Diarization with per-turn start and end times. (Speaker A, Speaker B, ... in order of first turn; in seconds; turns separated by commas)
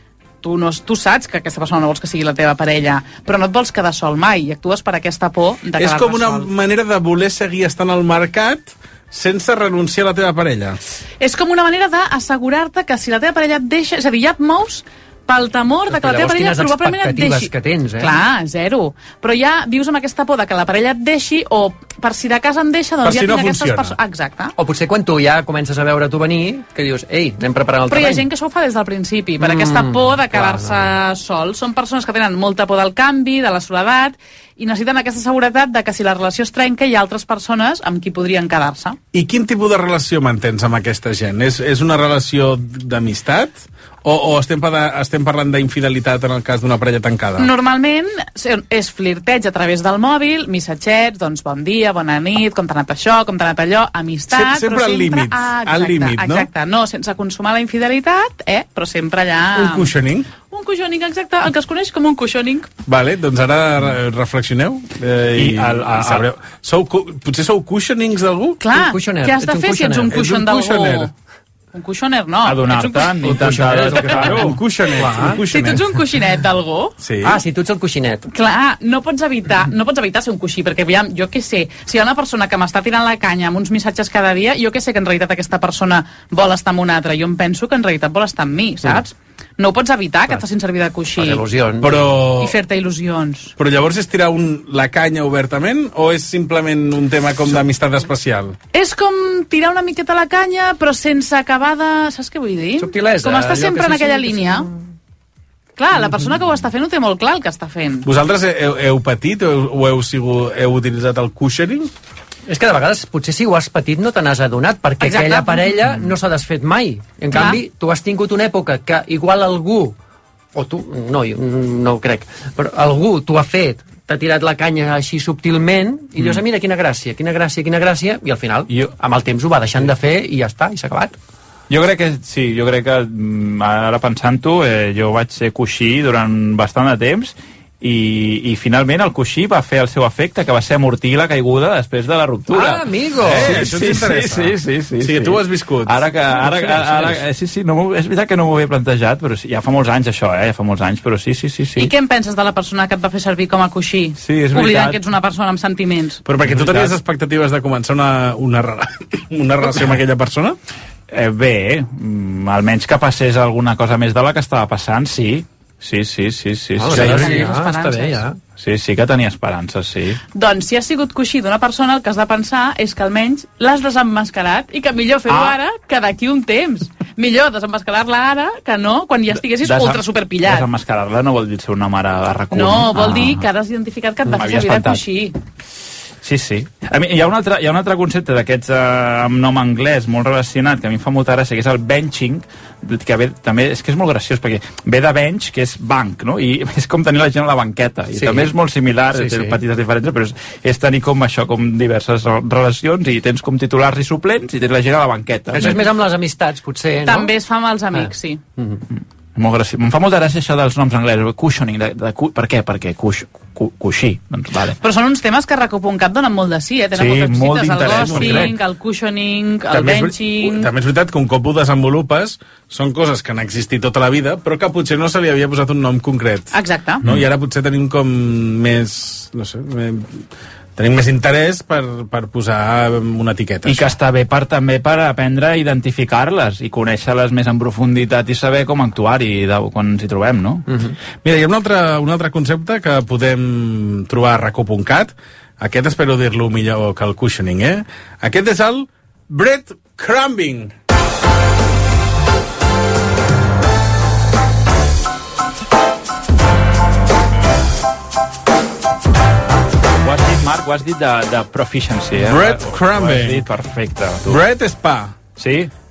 Speaker A: 0.4-6.5, Speaker B: 5.8-10.8, Speaker A: 11.2-24.5, Speaker C: 15.9-18.2, Speaker B: 23.0-23.9, Speaker C: 24.6-28.3, Speaker A: 27.9-39.0, Speaker C: 29.4-30.9, Speaker B: 39.1-47.5, Speaker A: 47.4-59.9, Speaker B: 54.3-56.5, Speaker B: 59.5-60.3, Speaker A: 60.4-62.7, Speaker B: 62.9-68.6, Speaker D: 65.4-66.3, Speaker A: 68.6-71.1, Speaker C: 68.7-70.1, Speaker B: 70.1-71.1, Speaker A: 71.7-73.3, Speaker D: 72.5-74.6, Speaker C: 73.2-75.4, Speaker A: 74.1-74.3, Speaker B: 74.3-75.8, Speaker A: 75.5-77.0, Speaker B: 77.0-77.4, Speaker C: 77.2-78.3, Speaker A: 78.3-91.4, Speaker C: 91.2-92.2, Speaker B: 91.8-92.6, Speaker A: 92.4-93.5, Speaker B: 93.6-98.6, Speaker A: 98.7-104.7, Speaker C: 102.8-104.7, Speaker A: 105.8-108.1, Speaker B: 108.0-111.9, Speaker C: 112.5-120.0, Speaker A: 115.0-115.9, Speaker A: 117.3-117.6, Speaker C: 120.5-131.2, Speaker D: 131.7-151.9, Speaker C: 142.5-143.7, Speaker B: 143.2-146.0, Speaker C: 146.4-147.2, Speaker A: 151.8-156.2, Speaker D: 154.2-155.0, Speaker B: 156.3-160.6, Speaker D: 156.4-156.9, Speaker D: 161.1-167.5, Speaker C: 166.8-168.4, Speaker A: 166.9-168.2, Speaker D: 168.6-170.2, Speaker A: 170.3-180.7, Speaker D: 175.3-175.6, Speaker D: 179.6-183.5, Speaker A: 182.5-185.4, Speaker D: 184.3-185.0, Speaker D: 186.2-205.8, Speaker C: 198.2-198.5, Speaker C: 199.1-199.6, Speaker C: 205.5-207.3, Speaker A: 207.1-208.4, Speaker C: 207.9-208.8, Speaker D: 209.4-214.8, Speaker A: 214.8-220.7, Speaker D: 216.9-218.6, Speaker B: 217.8-218.6, Speaker B: 219.7-226.5, Speaker A: 226.5-227.1, Speaker B: 227.0-230.2, Speaker B: 230.8-233.9, Speaker D: 233.7-240.7, Speaker C: 240.7-240.9, Speaker B: 241.2-250.7, Speaker D: 260.0-264.4, Speaker B: 262.2-263.5, Speaker B: 264.3-265.1, Speaker D: 265.4-265.7